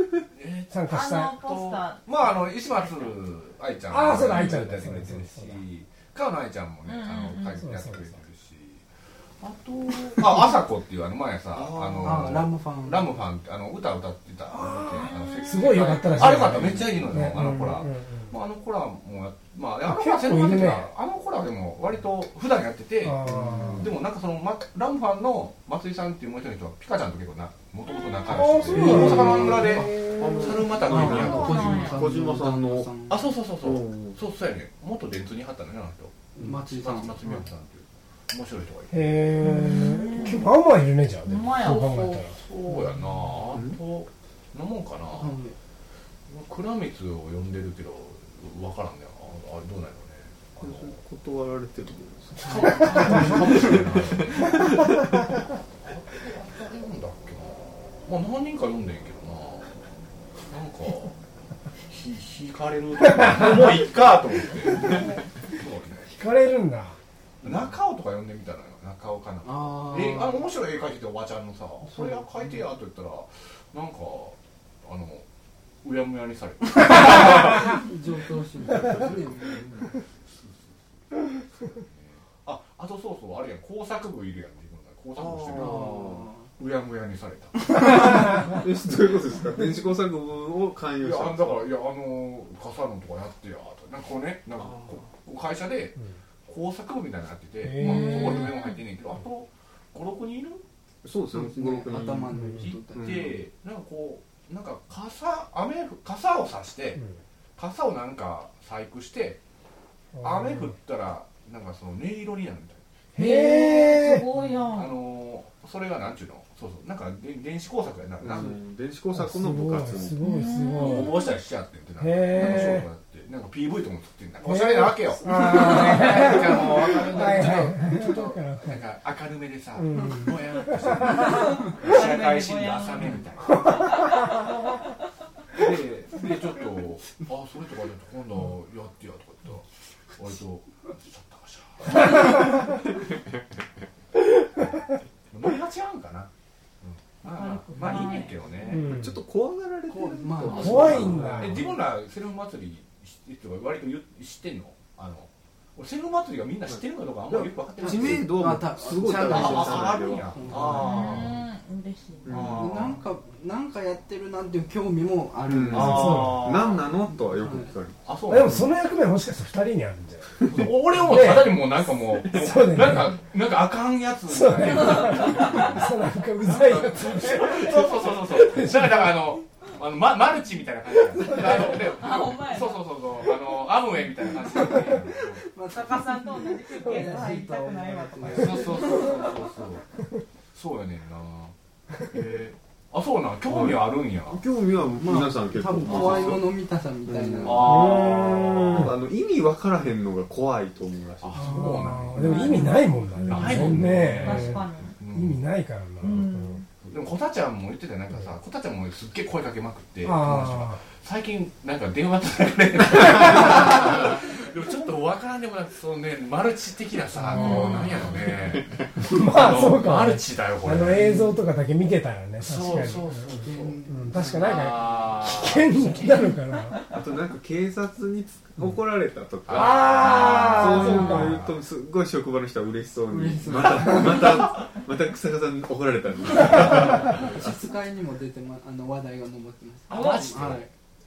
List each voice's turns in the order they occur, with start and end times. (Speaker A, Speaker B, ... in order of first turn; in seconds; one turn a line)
Speaker A: 0.3-8.8
Speaker B: 0.7-1.3
Speaker C: 0.9-2.1
Speaker B: 3.9-5.6
Speaker C: 6.8-7.6
Speaker B: 7.6-8.2
Speaker A: 9.4-32.0
Speaker D: 11.5-12.4
Speaker E: 12.0-13.1
Speaker C: 14.9-16.2
Speaker B: 15.4-18.3
Speaker B: 19.8-20.9
Speaker B: 23.0-23.9
Speaker D: 23.2-23.9
Speaker B: 28.3-30.6
Speaker D: 28.7-32.9
Speaker E: 28.8-29.9
Speaker E: 30.7-33.4
Speaker C: 31.1-32.0
Speaker A: 33.1-39.3
Speaker D: 33.6-34.2
Speaker E: 36.4-37.3
Speaker B: 38.9-42.3
Speaker C: 39.4-40.5
Speaker C: 41.2-42.2
Speaker A: 41.6-45.4
Speaker E: 45.2-45.5
Speaker A: 46.3-51.0
Speaker D: 50.6-55.2
Speaker A: 52.4-55.0
Speaker E: 52.4-53.8
Speaker A: 55.8-59.9
Speaker A: 60.5-61.1
Speaker A: 61.9-66.1
Speaker B: 63.1-63.7
Speaker B: 64.8-65.2
Speaker B: 66.1-67.0
Speaker A: 67.4-75.2
Speaker E: 69.4-70.5
Speaker E: 71.9-72.5
Speaker A: 75.8-77.8
Speaker E: 76.8-79.7
Speaker D: 78.7-79.9
Speaker A: 80.0-88.3
Speaker D: 85.2-86.3
Speaker E: 85.5-86.5
Speaker D: 87.8-91.7
Speaker A: 91.0-100.6
Speaker B: 97.6-98.5
Speaker C: 97.8-98.7
Speaker D: 101.0-103.4
Speaker E: 101.3-103.2
Speaker B: 102.3-102.7
Speaker A: 102.6-107.0
Speaker A: 107.6-109.4
Speaker B: 110.1-110.7
Speaker A: 110.2-112.8
Speaker B: 113.1-114.2
Speaker C: 113.2-115.0
Speaker A: 114.7-118.6
Speaker D: 118.2-120.2
Speaker B: 119.1-121.2
Speaker C: 120.2-121.3
Speaker A: 120.8-133.8
Speaker B: 122.0-122.9
Speaker B: 124.4-128.8
Speaker B: 129.8-131.5
Speaker C: 131.2-133.7
Speaker A: 135.5-142.8
Speaker A: 145.3-146.3
Speaker A: 146.8-148.9
Speaker C: 147.2-148.5
Speaker B: 148.7-149.2
Speaker D: 148.8-151.7
Speaker E: 149.9-151.4
Speaker A: 150.4-158.5
Speaker B: 150.6-151.6
Speaker D: 156.7-160.8
Speaker E: 157.8-161.3
Speaker A: 159.2-161.4
Speaker C: 160.7-162.5
Speaker A: 162.2-163.0
Speaker D: 162.3-162.8
Speaker E: 162.4-167.7
Speaker D: 165.4-168.1
Speaker A: 165.7-166.8
Speaker B: 165.7-166.4
Speaker A: 168.0-168.8
Speaker B: 168.3-171.7
Speaker A: 170.4-185.6
Speaker B: 172.3-173.2
Speaker B: 174.3-179.2
Speaker C: 181.6-182.8
Speaker E: 184.5-189.3
Speaker C: 185.7-189.2
Speaker A: 188.2-189.8
Speaker A: 190.5-194.4
Speaker D: 193.4-196.5
Speaker E: 195.0-197.9
Speaker A: 195.8-196.4
Speaker D: 197.1-202.5
Speaker A: 197.4-198.9
Speaker B: 197.7-198.9
Speaker A: 201.2-202.7
Speaker B: 201.4-206.6
Speaker C: 202.2-203.3
Speaker A: 203.2-205.4
Speaker D: 203.3-204.0
Speaker C: 204.2-205.0
Speaker C: 206.0-206.6
Speaker A: 206.8-221.2
Speaker B: 210.0-210.8
Speaker B: 217.2-217.9
Speaker C: 217.3-218.0
Speaker B: 218.9-223.2
Speaker A: 222.4-226.3
Speaker E: 223.3-225.0
Speaker B: 223.9-226.8
Speaker D: 226.9-237.4
Speaker A: 229.5-231.3
Speaker C: 229.6-231.4
Speaker B: 230.1-231.5
Speaker E: 233.1-234.6
Speaker A: 233.6-234.7
Speaker E: 236.4-240.7
Speaker A: 236.5-237.2
Speaker A: 239.9-240.7